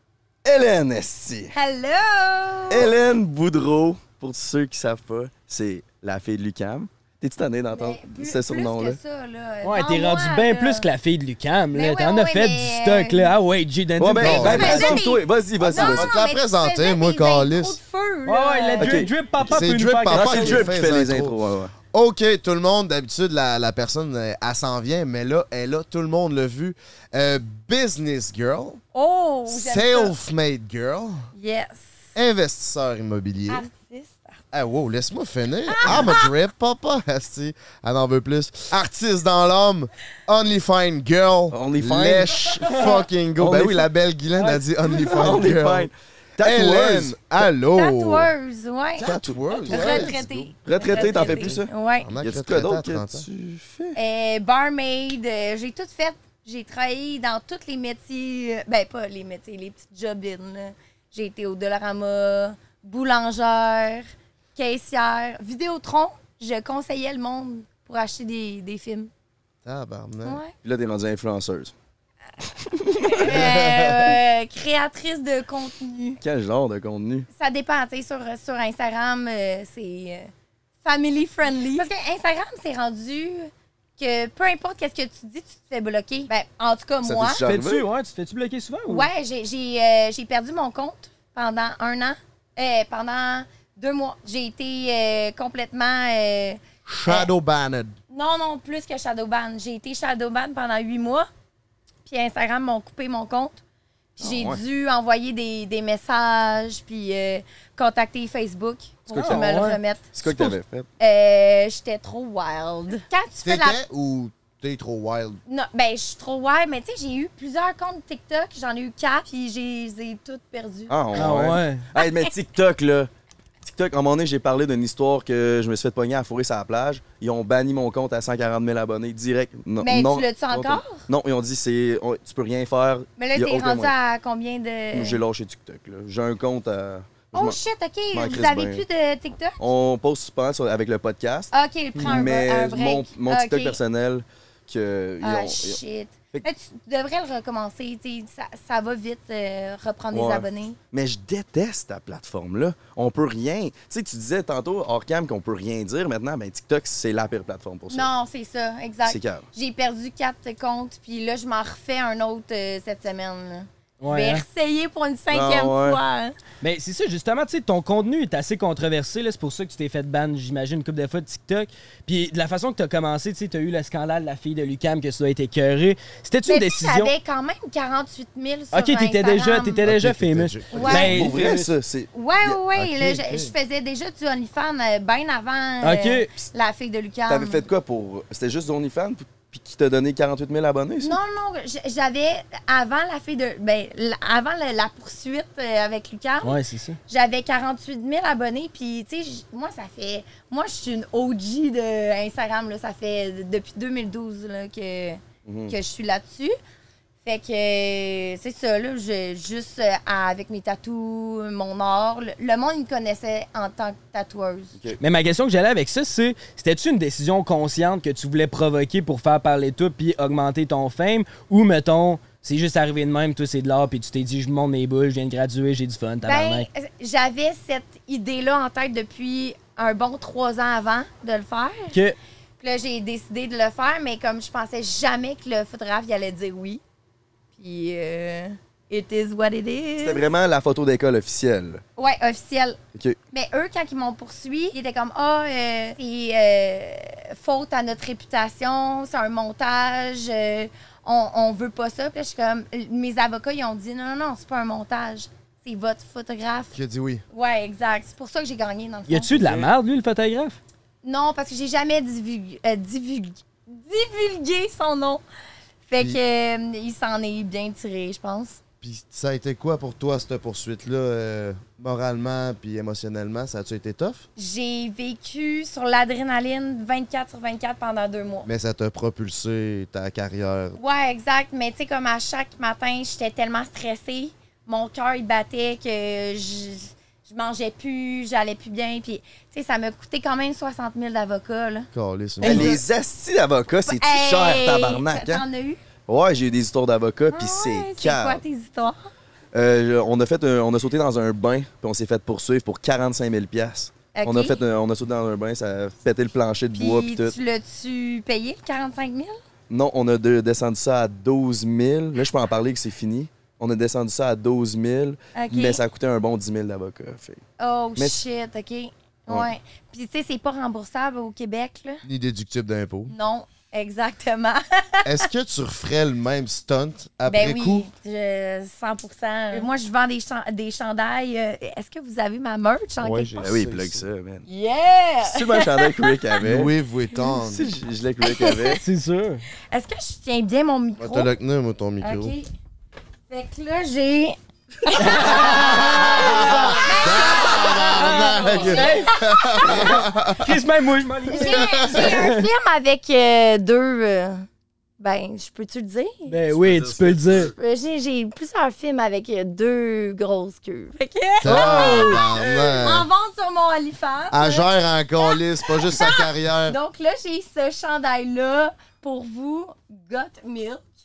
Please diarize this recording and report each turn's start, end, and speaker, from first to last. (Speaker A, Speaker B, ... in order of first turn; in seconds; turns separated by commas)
Speaker A: 0.5-1.5, Speaker B: 1.5-2.9, Speaker A: 2.7-9.0, Speaker B: 7.7-10.9, Speaker C: 9.6-15.0, Speaker B: 11.7-13.3, Speaker A: 14.0-16.1, Speaker D: 14.2-15.0, Speaker B: 14.3-19.1, Speaker D: 15.6-17.8, Speaker C: 18.3-20.7, Speaker A: 18.8-19.1, Speaker D: 19.4-21.4, Speaker A: 20.1-21.7, Speaker D: 21.9-28.8, Speaker B: 28.9-30.1, Speaker D: 29.5-31.3, Speaker B: 31.4-32.1, Speaker D: 32.1-33.7, Speaker B: 33.5-34.4, Speaker D: 34.5-48.3, Speaker B: 35.7-36.3, Speaker A: 41.5-42.8, Speaker A: 43.4-43.9, Speaker C: 44.4-44.6, Speaker A: 44.9-47.2, Speaker B: 47.8-49.1, Speaker D: 49.0-53.3, Speaker A: 49.0-54.0, Speaker B: 49.7-52.1, Speaker B: 54.0-69.1, Speaker D: 69.7-70.4, Speaker B: 70.2-70.5, Speaker A: 70.6-71.7, Speaker A: 72.7-73.4, Speaker B: 73.0-76.2, Speaker D: 73.2-74.2, Speaker A: 76.2-77.3, Speaker B: 77.3-80.3, Speaker B: 80.8-87.4, Speaker A: 87.0-87.9, Speaker C: 87.4-89.1, Speaker B: 88.9-97.3, Speaker D: 96.9-98.0, Speaker B: 98.1-101.3, Speaker B: 102.1-103.6, Speaker A: 104.2-104.6, Speaker B: 104.2-113.8, Speaker A: 109.1-109.5, Speaker C: 109.1-109.8, Speaker A: 110.2-110.9, Speaker D: 113.4-115.4, Speaker B: 115.5-121.0, Speaker A: 120.9-123.1, Speaker C: 121.1-121.9, Speaker B: 122.0-122.2, Speaker A: 123.6-133.9, Speaker B: 129.8-131.1, Speaker B: 133.2-135.2, Speaker A: 134.9-137.6, Speaker B: 137.3-139.6, Speaker A: 138.1-138.8, Speaker A: 139.6-145.8, Speaker B: 141.5-143.8, Speaker C: 142.0-142.2, Speaker B: 145.2-150.8, Speaker A: 150.1-158.1, Speaker B: 157.9-166.3, Speaker A: 159.1-159.4, Speaker C: 164.0-164.4, Speaker A: 165.3-166.0, Speaker C: 166.6-177.1, Speaker B: 176.5-179.8, Speaker C: 178.7-181.7, Speaker D: 179.8-181.2, Speaker B: 180.7-181.2, Speaker A: 180.8-182.6, Speaker B: 182.1-187.6, Speaker D: 182.7-183.5, Speaker C: 185.8-186.3, Speaker A: 187.3-191.2, Speaker B: 191.0-196.6, Speaker C: 196.4-197.0, Speaker B: 197.1-206.6, Speaker A: 205.4-205.8, Speaker B: 207.2-214.7, Speaker C: 215.0-226.7, Speaker B: 226.2-232.0, Speaker B: 232.6-236.8, Speaker B: 237.6-240.3, Speaker A: 240.0-241.8, Speaker B: 242.0-242.8, Speaker B: 243.3-256.8, Speaker D: 256.7-257.2, Speaker B: 257.3-259.4, Speaker C: 259.1-260.6, Speaker A: 259.4-259.7, Speaker B: 261.0-265.2, Speaker B: 265.9-268.6, Speaker D: 268.8-274.3, Speaker B: 274.4-278.5, Speaker D: 278.4-280.8, Speaker B: 280.8-291.9, Speaker D: 291.9-292.8, Speaker C: 292.4-292.8, Speaker A: 292.4-295.4, Speaker B: 293.9-295.8, Speaker A: 296.1-298.4, Speaker B: 297.3-299.0, Speaker A: 299.5-307.4, Speaker B: 304.1-304.6, Speaker B: 306.7-309.4, Speaker A: 309.7-317.4, Speaker B: 315.4-315.8, Speaker B: 317.6-322.0, Speaker A: 318.0-318.2, Speaker D: 322.0-323.1, Speaker B: 323.1-325.2, Speaker D: 325.1-327.9, Speaker B: 327.3-333.4, Speaker D: 333.0-334.1, Speaker A: 333.4-334.5, Speaker B: 334.5-336.2, Speaker A: 335.2-336.7, Speaker D: 336.4-337.7, Speaker A: 337.4-338.8, Speaker B: 338.2-338.8, Speaker C: 338.8-339.4, Speaker B: 339.7-341.3, Speaker D: 341.0-342.4, Speaker B: 342.0-342.5, Speaker B: 343.3-350.1, Speaker C: 344.9-346.9, Speaker D: 345.3-350.6, Speaker C: 347.9-352.5, Speaker B: 351.3-354.5, Speaker D: 351.3-352.2, Speaker B: 355.0-356.4, Speaker C: 356.3-357.5, Speaker A: 356.5-357.5, Speaker B: 357.6-371.0, Speaker D: 361.4-363.1, Speaker C: 361.5-362.2, Speaker D: 364.3-366.8